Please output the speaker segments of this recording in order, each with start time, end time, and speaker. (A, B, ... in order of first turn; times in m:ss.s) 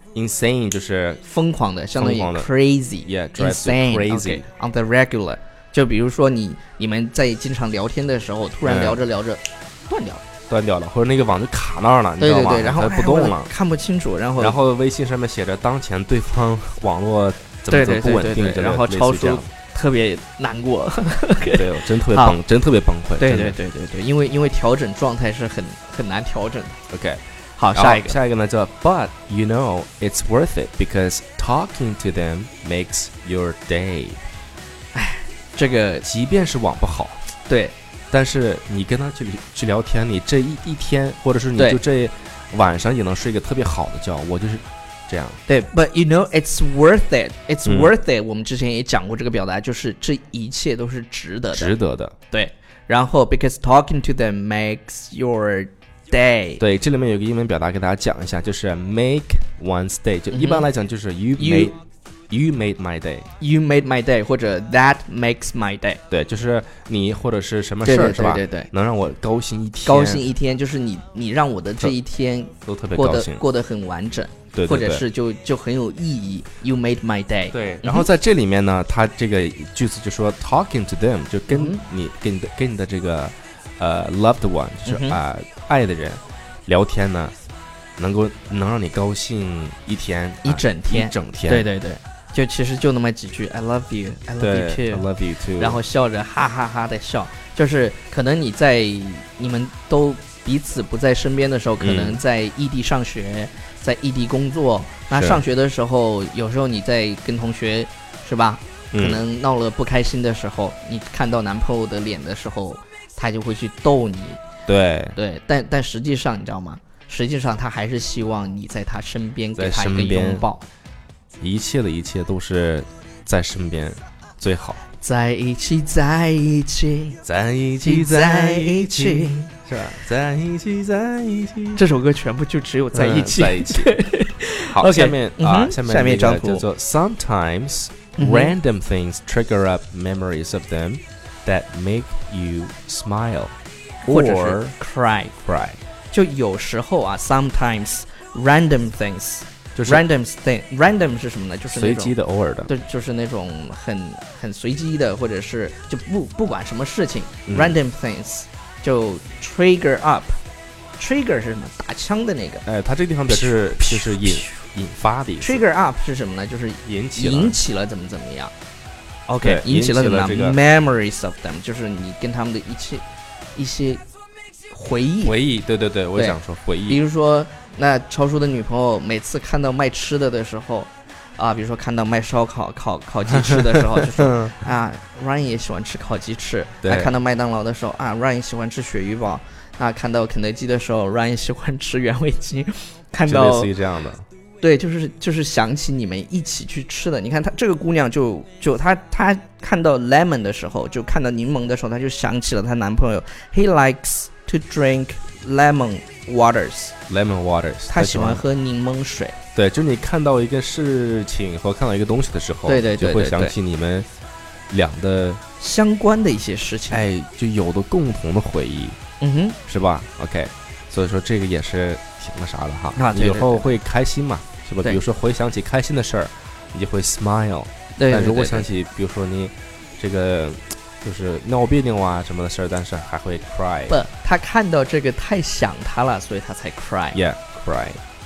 0:00.1-0:01.2 A
0:01.2-0:10.2 B
0:02.0-0:02.5 A
0:03.0-0:04.4 A
0:08.6-0:09.0 A
0:10.5-0:13.5 A
0:12.2-0:14.6 B
0:14.4-0:19.5 A
0:17.7-0:22.4 B
0:21.5-0:23.6 A
0:23.2-0:26.8 B
0:26.9-0:27.2 A
0:27.6-0:28.2 B
0:27.7-0:34.2 A
0:34.9-0:36.0 B
0:36.0-0:37.2 A
0:37.5-0:37.7 B
0:38.1-0:45.4 A
0:41.6-0:41.8 B
0:45.5-0:51.7 B
0:47.6-0:47.9 A
0:51.5-0:52.2 A
0:52.3-0:56.6 B
0:56.6-1:01.8 A
1:00.3-1:00.6 B
1:01.4-1:01.7 B
1:02.3-1:03.3 A
1:03.4-1:06.0 B
1:06.1-1:10.2 A
1:07.8-1:08.7 B
1:09.8-1:18.1 B
1:12.6-1:13.4 A
1:14.5-1:15.0 A
1:17.5-1:27.3 A
1:21.5-1:21.8 B
1:24.8-1:25.2 B
1:28.0-1:31.6 A
1:30.4-1:35.0 B
1:34.4-1:35.8 A
1:35.6-1:54.4 B
1:41.8-1:42.2 A
1:45.1-1:45.4 A
1:48.9-1:49.2 A
1:54.7-1:55.2 A
1:55.2-2:00.6 B
1:59.6-2:00.5 A
2:01.4-2:04.8 A
2:05.0-2:07.2 B
2:07.2-2:11.8 A
2:07.8-2:09.5 B
2:11.8-2:16.6 B
2:12.9-2:14.0 A
2:14.6-2:24.7 A
2:18.2-2:18.5 B
2:24.0-2:25.4 B
2:25.4-2:25.8 A
2:26.1-2:32.1 B
2:29.8-2:30.0 A
2:31.7-2:32.7 A
2:32.6-2:40.4 B
2:37.5-2:37.8 A
2:41.0-2:42.6 B
2:42.6-2:45.6 A
2:43.3-2:44.6 B
2:45.4-2:48.5 B
2:46.8-2:47.5 A
2:49.3-2:53.0 B
2:49.4-2:50.6 A
2:53.6-2:54.0 B
2:54.7-2:55.3 B
2:55.2-2:57.0 A
2:56.2-3:13.7 B
3:03.4-3:04.6 A
3:06.8-3:07.1 A
3:13.2-3:14.2 A
3:14.6-3:26.9 B
3:27.1-3:28.4 A
3:27.9-3:29.4 B
3:29.5-3:34.1 A
3:32.6-3:33.5 B
3:34.7-3:35.4 A
3:35.6-3:37.0 B
3:36.9-3:39.0 A
3:39.2-3:39.6 B
3:39.6-3:54.0 A
3:43.0-3:43.8 B
3:48.0-3:48.7 B
3:53.9-3:57.2 B
3:57.1-3:58.0 A